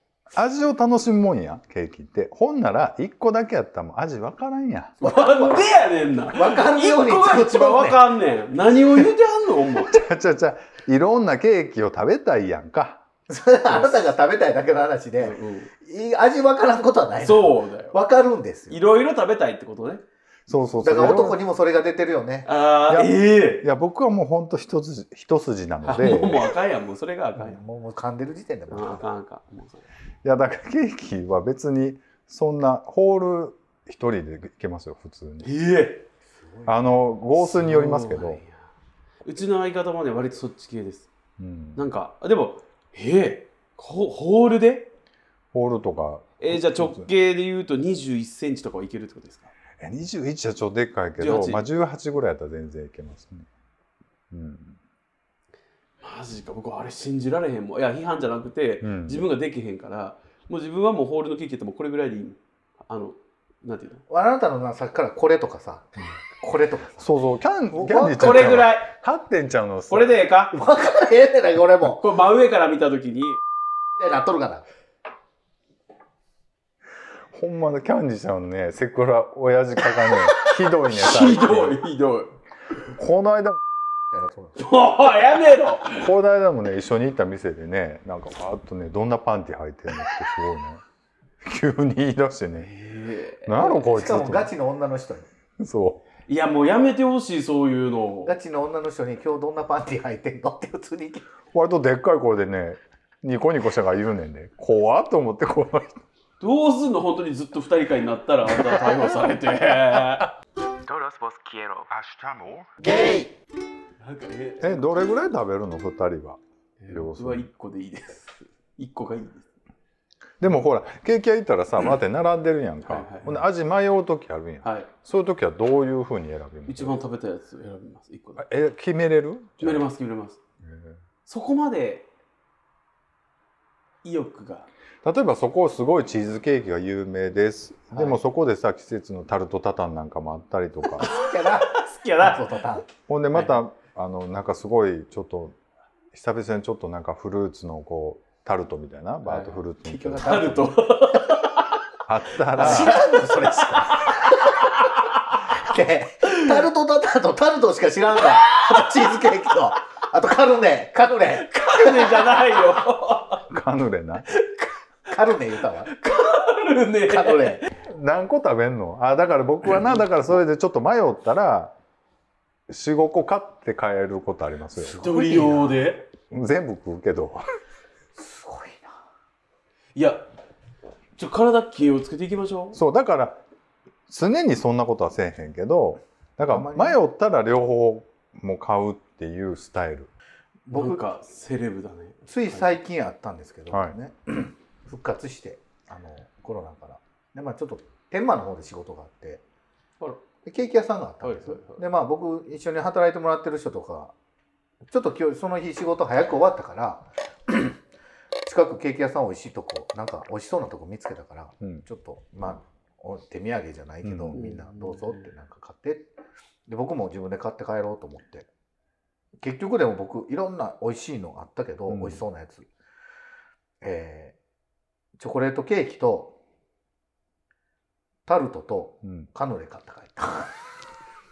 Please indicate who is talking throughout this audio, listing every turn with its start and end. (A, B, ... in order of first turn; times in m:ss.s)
0:00.3-0:05.0 A
0:05.0-0:05.7 B
0:05.0-0:09.9 C
0:06.3-0:08.1 B
0:09.8-0:13.0 A
0:13.3-0:18.8 B
0:13.7-0:14.0 C
0:15.2-0:15.7 C
0:17.2-0:18.0 C
0:18.7-0:20.0 C
0:20.5-0:21.4 A
0:20.8-0:22.5 B
0:22.5-0:23.7 C
0:22.9-0:26.5 A
0:25.8-0:27.6 C
0:27.4-0:29.0 B
0:28.7-0:29.9 C
0:30.2-0:35.5 A
0:35.4-0:36.1 C
0:36.4-0:36.8 B
0:36.7-0:38.4 A
0:37.4-0:38.6 C
0:39.2-0:41.1 C
0:41.4-0:41.8 A
0:41.8-0:44.9 C
0:45.5-0:47.1 A
0:46.4-0:49.5 C
0:49.8-0:53.5 A
0:51.2-0:51.6 C
0:54.3-0:54.8 A
0:56.0-1:04.0 C
0:58.8-0:59.2 A
1:04.1-1:05.9 B
1:06.4-1:07.1 B
1:07.0-1:10.1 A
1:07.7-1:08.5 B
1:08.1-1:08.9 C
1:09.9-1:10.6 C
1:10.5-1:12.0 B
1:11.8-1:13.4 C
1:14.0-1:14.6 B
1:17.3-1:21.8 A
1:20.3-1:22.3 C
1:22.9-1:23.6 A
1:24.1-1:24.6 B
1:24.6-1:26.1 C
1:25.9-1:30.8 A
1:31.4-1:32.7 A
1:32.6-1:33.8 C
1:33.4-1:34.5 A
1:33.6-1:35.3 B
1:35.6-1:36.0 A
1:36.3-1:38.3 C
1:38.2-1:41.3 B
1:41.5-1:46.0 A
1:46.4-1:50.3 C
1:50.8-1:51.9 C
1:51.9-1:52.8 A
1:54.0-1:54.9 C
1:54.6-1:57.5 A
1:56.8-1:59.5 C
2:00.4-2:07.0 A
2:02.8-2:03.4 C
2:04.6-2:04.9 C
2:06.7-2:08.4 C
2:08.4-2:09.9 A
2:09.6-2:10.4 C
2:10.6-2:10.9 A
2:11.3-2:12.1 C
2:14.0-2:14.7 C
2:15.0-2:21.1 A
2:21.0-2:22.9 B
2:21.0-2:22.4 C
2:23.1-2:25.6 A
2:23.3-2:23.6 C
2:26.1-2:30.6 A
2:29.3-2:29.6 C
2:29.8-2:30.8 B
2:30.2-2:31.7 C
2:32.1-2:33.0 A
2:32.5-2:34.8 B
2:32.6-2:35.4 C
2:35.5-2:42.6 B
2:38.5-2:39.1 C
2:41.4-2:43.4 C
2:43.5-2:44.3 A
2:44.3-2:44.7 C
2:45.1-2:45.9 B
2:45.9-2:47.7 C
2:47.1-2:47.7 B
2:47.8-2:51.7 A
2:52.7-2:55.0 A
2:54.8-2:55.9 B
2:55.0-2:56.1 C
2:56.3-2:57.4 A
2:58.2-2:59.0 B
3:00.0-3:00.3 C
3:01.2-3:02.8 C
3:02.7-3:03.4 A
3:04.1-3:10.1 A
3:06.5-3:07.0 B
3:10.7-3:11.1 B
3:10.7-3:12.8 C
3:12.3-3:19.4 B
3:13.7-3:14.0 A
3:20.4-3:24.1 B
3:21.2-3:21.8 C
3:24.9-3:27.8 B
3:28.4-3:36.1 B
3:34.0-3:34.4 A
3:34.3-3:35.2 C
3:36.7-3:38.5 B
3:39.4-3:42.7 B
3:41.9-3:42.2 A
3:43.8-3:44.4 B
3:45.2-3:46.4 B
3:48.3-3:50.5 B